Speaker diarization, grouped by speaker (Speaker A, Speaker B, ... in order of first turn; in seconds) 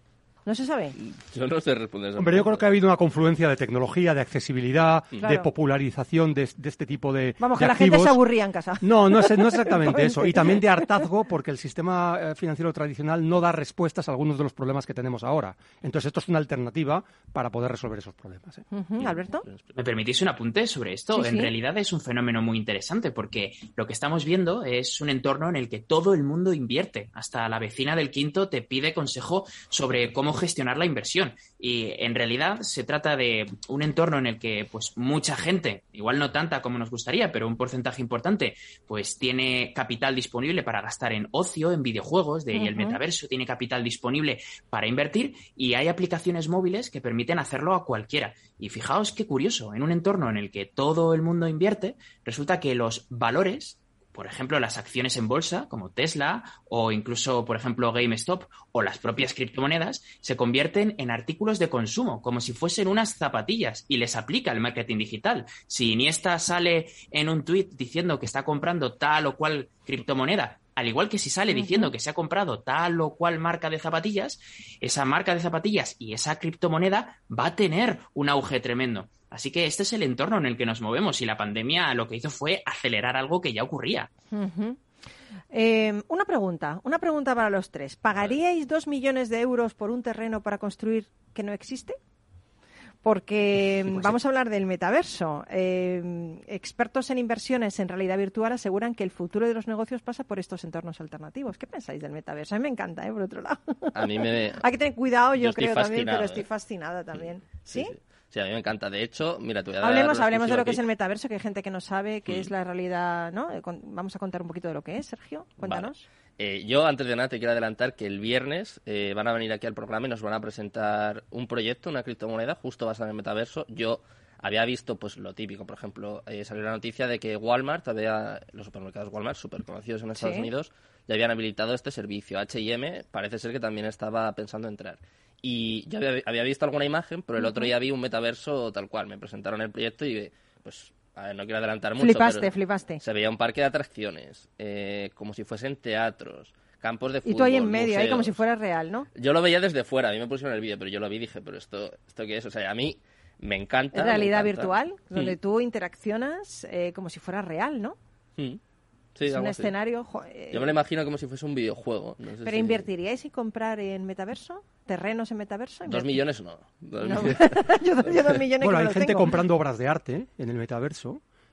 Speaker A: 0.5-0.9, 5.2-5.5, 7.4-11.1, 18.7-19.5, 21.1-21.5, 42.5-43.0, 71.5-71.9, 84.3-84.8, 85.5-92.0, 93.0-107.9, 109.8-116.1, 130.2-130.5, 137.4-137.7, 142.0-143.0, 147.2-149.1, 153.9-158.0, 159.2-160.7, 162.4-166.2, 167.0-169.3
Speaker B: 1.0-2.6, 19.0-19.7, 104.0-104.6, 105.4-106.5, 107.2-110.8, 115.6-148.4, 149.1-155.4, 159.2-159.7, 160.5-162.9, 165.9-168.3
Speaker C: 2.2-8.2, 8.8-18.6, 168.6-171.2
Speaker D: 19.8-84.1